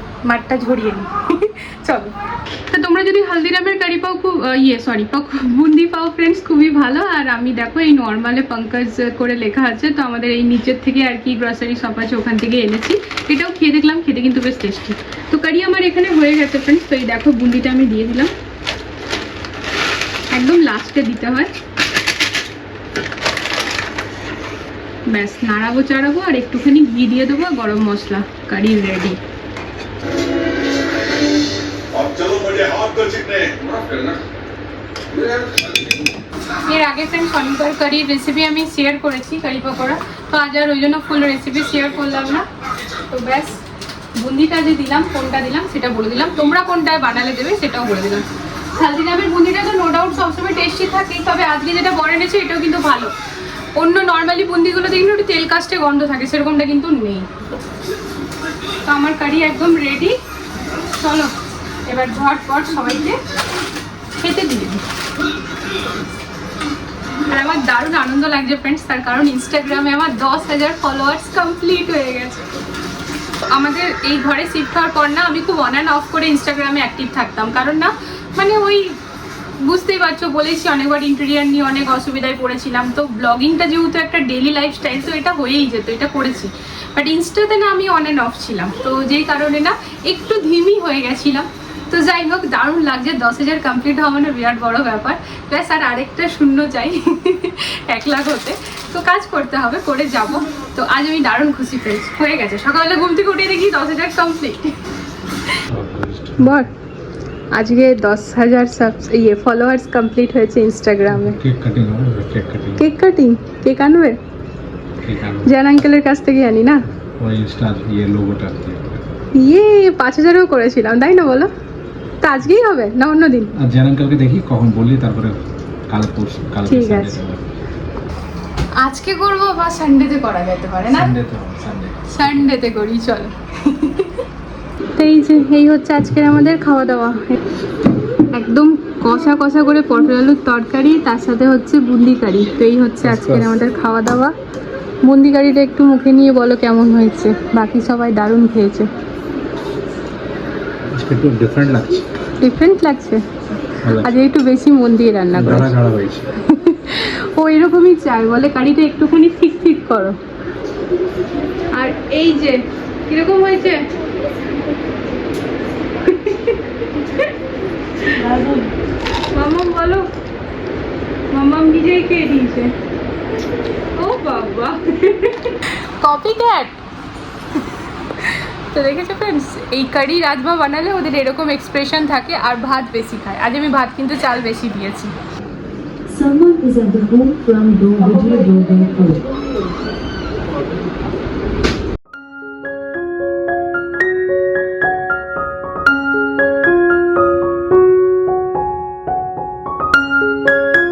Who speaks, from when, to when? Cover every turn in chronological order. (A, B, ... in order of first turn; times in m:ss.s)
0:00.2-0:18.3 A
0:20.3-0:21.5 A
0:25.1-0:29.2 A
0:36.6-0:42.5 A
0:43.1-0:43.6 A
0:44.2-0:53.1 A
0:53.8-0:57.3 A
0:58.8-1:00.2 A
1:00.9-1:01.3 A
1:01.8-1:03.2 A
1:04.2-1:04.8 A
1:07.2-1:12.4 A
1:13.5-1:19.0 A
1:19.6-1:44.8 A
1:45.7-1:46.5 B
1:46.4-1:46.7 A
1:47.5-1:51.4 A
1:51.1-1:52.8 B
1:52.8-1:54.2 A
1:55.0-1:55.5 B
1:55.4-1:56.8 A
1:57.2-1:59.0 B
1:59.4-2:01.5 A
2:02.2-2:03.5 A
2:03.6-2:07.4 B
2:06.7-2:07.2 A
2:08.8-2:11.2 A
2:10.9-2:12.3 B
2:12.1-2:14.2 A
2:15.0-2:17.4 A
2:18.3-2:24.3 A
2:23.0-2:23.5 B
2:25.0-2:28.9 A
2:30.9-2:32.1 B
2:32.4-2:33.2 A
2:33.8-2:34.2 B
2:33.9-2:35.7 A
2:35.4-2:36.3 B
2:36.4-2:40.2 A
2:41.7-2:43.8 A
2:46.0-2:47.3 A
2:48.0-2:48.6 A
2:49.3-2:50.1 A
2:51.3-2:52.7 A
2:54.0-2:56.8 A
2:58.2-3:05.1 A
3:06.5-3:07.6 C
3:08.2-3:09.2 C